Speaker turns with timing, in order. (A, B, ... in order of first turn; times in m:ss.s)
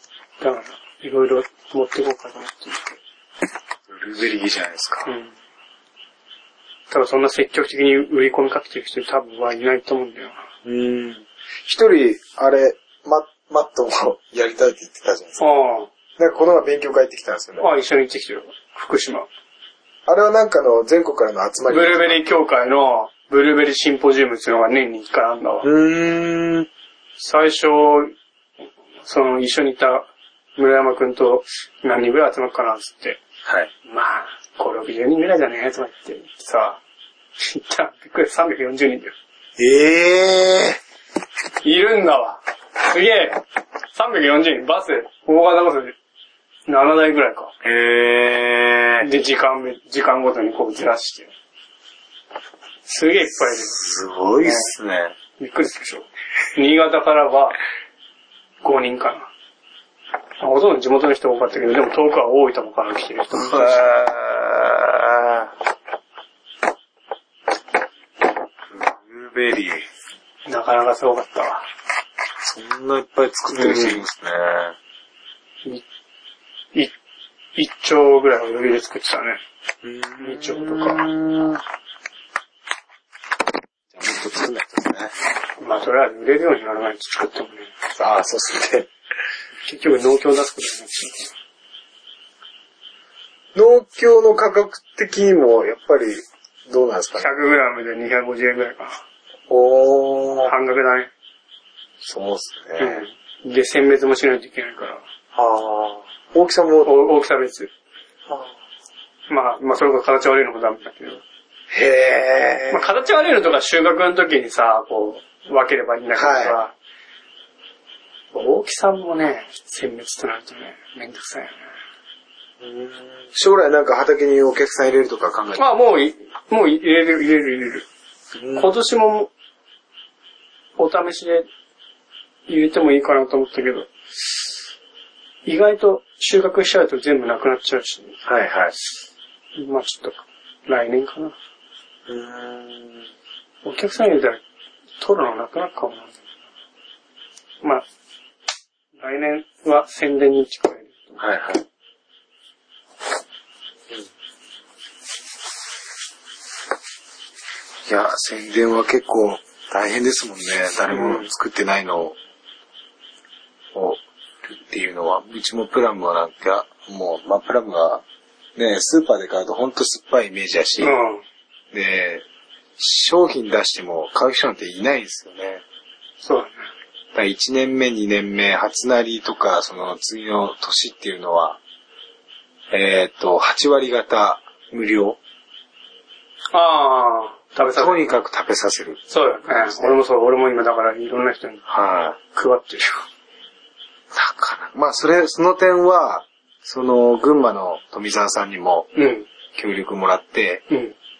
0:00.4-0:03.0 A
0:03.9-0:05.1 B
0:05.0-0:05.3 A
0:06.9-0:10.4 A
0:10.6-0:15.4 B
0:15.4-0:15.9 A
0:16.2-0:17.7 B
0:17.6-0:19.3 A
0:20.0-0:22.2 B
0:21.7-0:25.7 A
0:25.6-0:26.7 B
0:27.2-0:28.1 A
0:29.0-0:33.2 A
0:33.4-0:33.7 B
0:33.8-0:36.8 A
0:37.4-0:39.1 A
0:39.6-0:40.8 B
0:41.6-0:43.4 A
0:43.9-0:45.9 A
0:46.7-0:47.5 A
0:47.6-0:49.1 B
0:49.0-0:51.3 A
0:52.8-0:53.8 A
0:53.5-0:55.1 B
0:54.4-0:54.7 A
0:55.4-0:57.6 A
0:58.6-0:59.3 A
1:00.4-1:03.8 A
1:03.3-1:05.5 B
1:08.7-1:09.9 B
1:10.4-1:11.7 A
1:12.4-1:14.8 B
1:13.5-1:14.0 A
1:17.5-1:19.4 A
1:19.8-1:21.6 B
1:20.2-1:21.1 A
1:23.9-1:25.1 B
1:25.6-1:27.7 A
1:28.0-1:28.9 B
1:29.6-1:31.3 A
1:33.5-1:37.3 B
1:37.2-1:39.0 A
1:39.5-1:40.5 B
1:40.4-1:41.1 A
1:42.0-1:43.0 B
1:42.8-1:45.0 A
1:45.3-1:46.9 B
1:46.8-1:47.7 A
1:48.3-1:48.5 B
1:49.3-1:51.2 A
1:51.7-1:53.0 B
1:52.7-1:56.7 A
1:56.1-1:56.6 B
1:58.3-2:01.6 A
2:02.6-2:05.6 B
2:05.6-2:07.8 A
2:08.4-2:08.7 B
2:08.5-2:09.3 A
2:10.8-2:11.5 A
2:12.5-2:13.9 A
2:15.4-2:18.2 A
2:18.2-2:18.7 B
2:19.5-2:21.3 A
2:22.1-2:23.0 B
2:23.6-2:24.4 A
2:25.0-2:26.2 A
2:29.0-2:31.2 A
2:31.2-2:31.6 B
2:37.8-2:42.2 B
2:40.9-2:41.3 A
2:43.7-2:48.0 B
2:48.6-2:50.9 B
2:50.8-2:51.2 A
2:51.7-2:52.2 B
2:52.8-2:55.6 B
2:56.2-2:56.7 A
2:57.1-3:01.6 B
3:02.7-3:05.2 B
3:06.5-3:08.1 A
3:07.6-3:10.0 B
3:09.1-3:11.6 A
3:11.7-3:12.2 B
3:12.3-3:13.0 A
3:14.1-3:18.9 B
3:18.9-3:19.3 A
3:19.5-3:20.6 B
3:20.7-3:20.9 A